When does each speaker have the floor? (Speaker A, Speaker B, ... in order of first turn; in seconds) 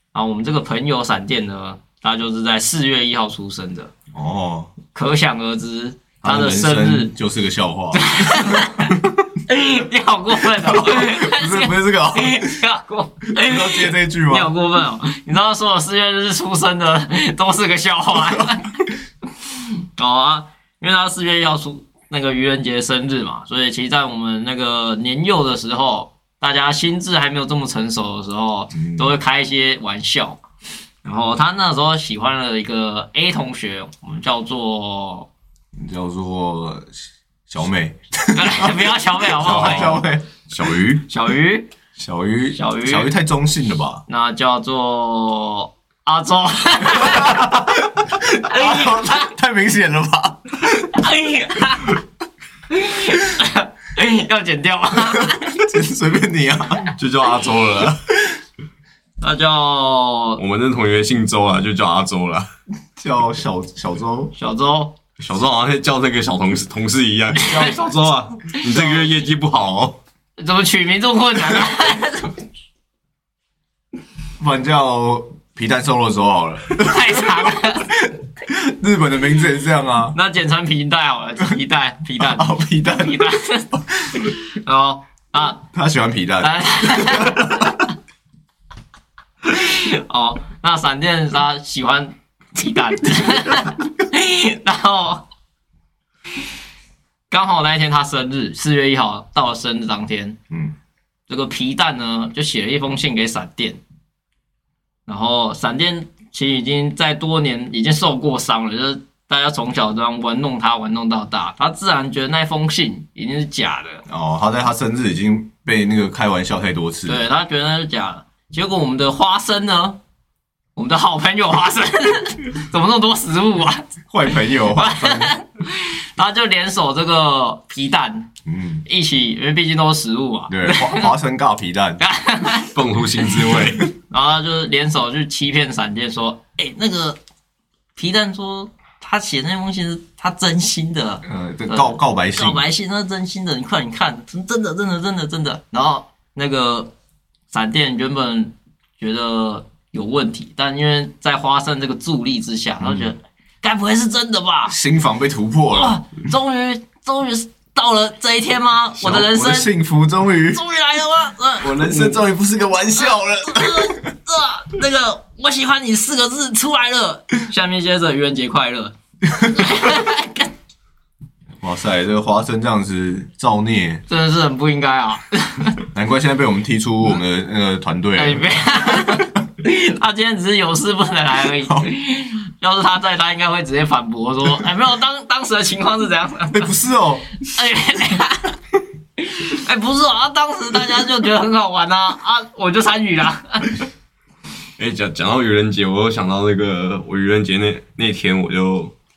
Speaker A: 0.1-3.9, 4.9-7.1, 8.0-30.4, 31.0-35.3, 38.4-40.0, 41.1-41.7, 42.5-43.1, 44.1-47.4, 48.4-49.3, 50.9-52.0, 52.7-55.6, 59.2-60.4, 64.3-65.0, 67.4-67.7, 70.4-72.4, 76.8-77.9, 80.1-85.6, 86.4-87.8, 89.5-95.2, 97.3-100.4, 101.3-103.8, 105.1-114.0, 117.1-120.0, 120.8-128.3, 128.9-131.1, 132.0-137.2, 138.0-146.9, 147.5-154.8, 155.7-159.7, 160.5-162.2, 163.0-170.5, 174.1-175.8, 178.2-186.7, 187.4-188.6, 189.2-193.8
Speaker B: 4.1-4.7, 6.2-8.7, 10.6-12.6, 13.3-14.5, 28.7-29.1, 35.7-41.1, 42.0-44.0, 47.0-51.0, 55.6-57.0, 63.0-64.3, 67.4-68.1, 74.4-80.2, 82.2-83.3, 85.6-87.7, 114.1-117.2, 124.1-125.3, 128.5-128.8, 130.5-132.0, 141.2-142.6, 152.8-153.1, 154.7-156.0, 159.0-160.6, 161.6-164.0, 169.3-169.8, 171.6-174.1, 175.9-179.3, 181.6-181.9, 186.5-187.3
Speaker C: 39.5-40.0, 56.9-58.1, 60.4-62.5, 65.2-70.0, 132.7-133.9, 194.8-198.9